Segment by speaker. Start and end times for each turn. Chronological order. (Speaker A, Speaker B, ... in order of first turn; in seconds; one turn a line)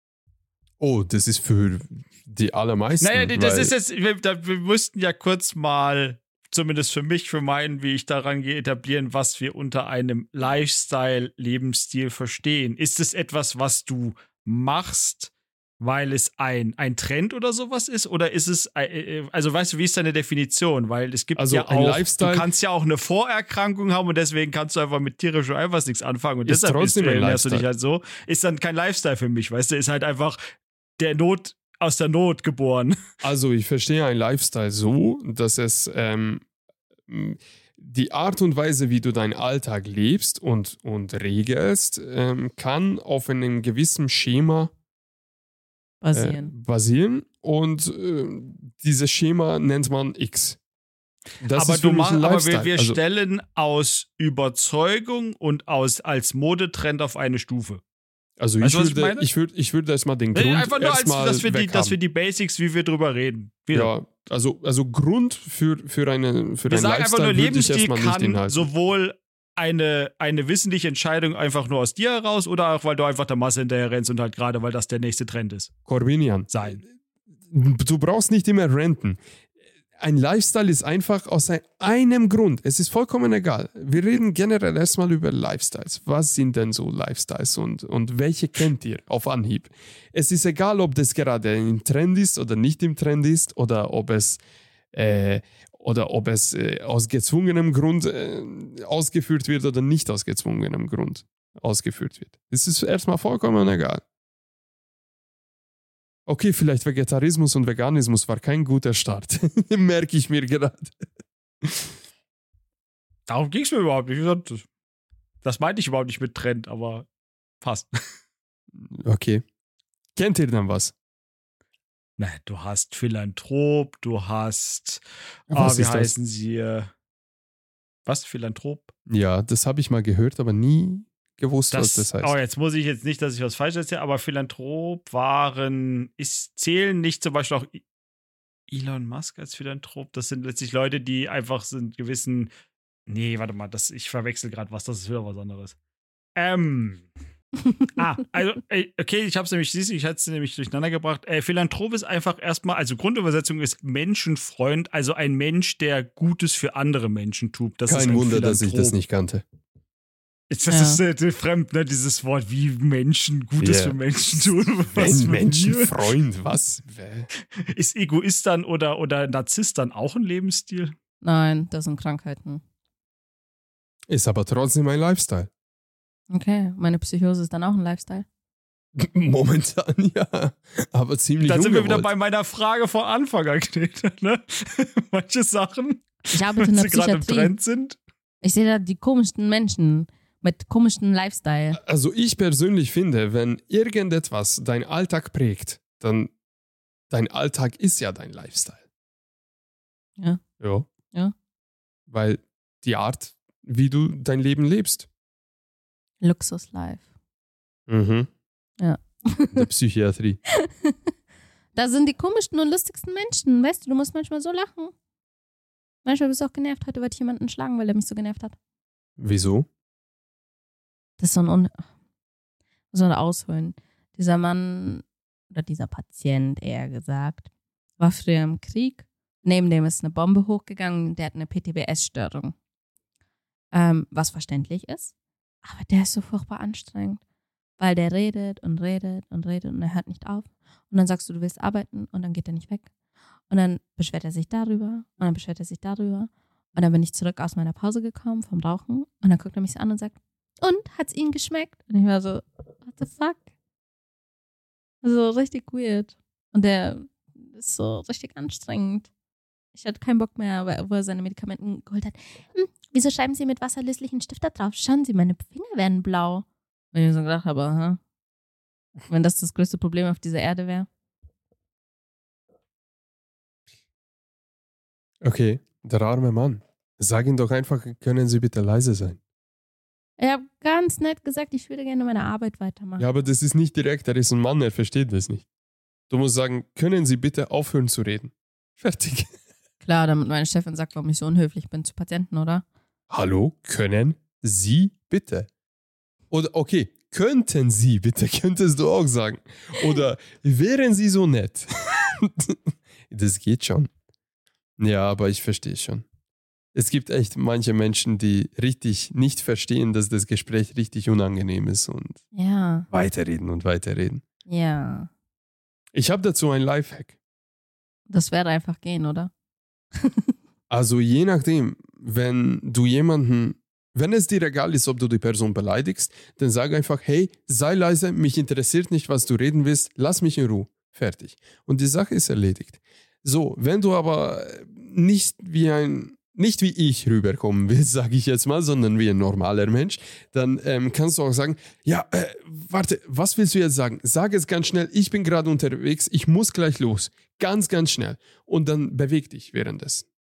Speaker A: 0.8-3.7
Speaker B: 3.0-30.4
Speaker A: 21.4-22.5
Speaker A: 26.5-27.7
Speaker B: 31.0-33.0
Speaker A: 33.2-36.4
Speaker A: 37.1-44.7
Speaker C: 46.0-46.5
Speaker A: 46.1-50.6
Speaker A: 51.4-53.0
Speaker B: 51.5-57.8
Speaker A: 58.4-62.0
Speaker B: 58.6-59.3
Speaker B: 60.4-63.9
Speaker A: 63.7-68.7
Speaker B: 66.7-75.7
Speaker A: 75.9-76.8
Speaker B: 76.5-76.8
Speaker A: 77.5-79.2
Speaker A: 80.0-94.4
Speaker A: 94.9-104.0
Speaker A: 106.3-111.0
Speaker A: 111.6-111.9
Speaker B: 113.3-114.7
Speaker B: 115.4-117.1
Speaker B: 117.6-117.9
Speaker A: 118.8-119.4
Speaker A: 120.2-120.9
Speaker B: 122.2-126.9
Speaker A: 125.5-126.2
Speaker B: 128.1-128.9
Speaker A: 129.1-132.4
Speaker B: 131.7-137.8
Speaker B: 138.7-142.5
Speaker B: 143.1-145.8
Speaker B: 146.4-147.1
Speaker B: 147.9-159.0
Speaker A: 157.9-159.4
Speaker B: 160.5-166.1
Speaker C: 160.7-161.0
Speaker A: 163.6-164.0
Speaker A: 164.9-167.3
Speaker B: 167.6-170.9
Speaker C: 171.2-172.6
Speaker A: 174.1-175.5
Speaker C: 176.3-178.3
Speaker A: 179.0-182.1
Speaker B: 181.4-188.0
Speaker C: 186.3-187.5
Speaker C: 188.4-191.8
Speaker A: 191.7-196.3
Speaker A: 197.1-198.8
Speaker A: 200.6-200.9
Speaker A: 202.1-205.1
Speaker C: 206.2-207.1
Speaker A: 207.9-208.3
Speaker C: 208.8-209.7
Speaker A: 209.5-210.4
Speaker C: 210.5-211.1
Speaker C: 211.8-214.9
Speaker C: 216.0-218.6
Speaker A: 219.2-219.7
Speaker C: 221.2-221.8
Speaker C: 222.9-232.5
Speaker C: 233.7-235.1
Speaker C: 235.6-237.2
Speaker C: 237.8-242.9
Speaker C: 243.5-253.4
Speaker C: 255.0-259.1
Speaker C: 259.7-268.0
Speaker C: 269.1-270.9
Speaker A: 275.2-279.2
Speaker C: 280.2-283.0
Speaker A: 283.0-285.4
Speaker A: 286.1-289.3
Speaker C: 289.8-292.6
Speaker A: 293.1-295.5
Speaker A: 296.3-302.6
Speaker A: 303.1-303.9
Speaker A: 304.8-306.1
Speaker A: 306.7-312.2
Speaker C: 312.3-312.9
Speaker A: 312.9-314.2
Speaker C: 314.5-315.1
Speaker A: 315.9-317.2
Speaker C: 318.1-319.3
Speaker C: 320.0-320.3
Speaker A: 320.7-350.1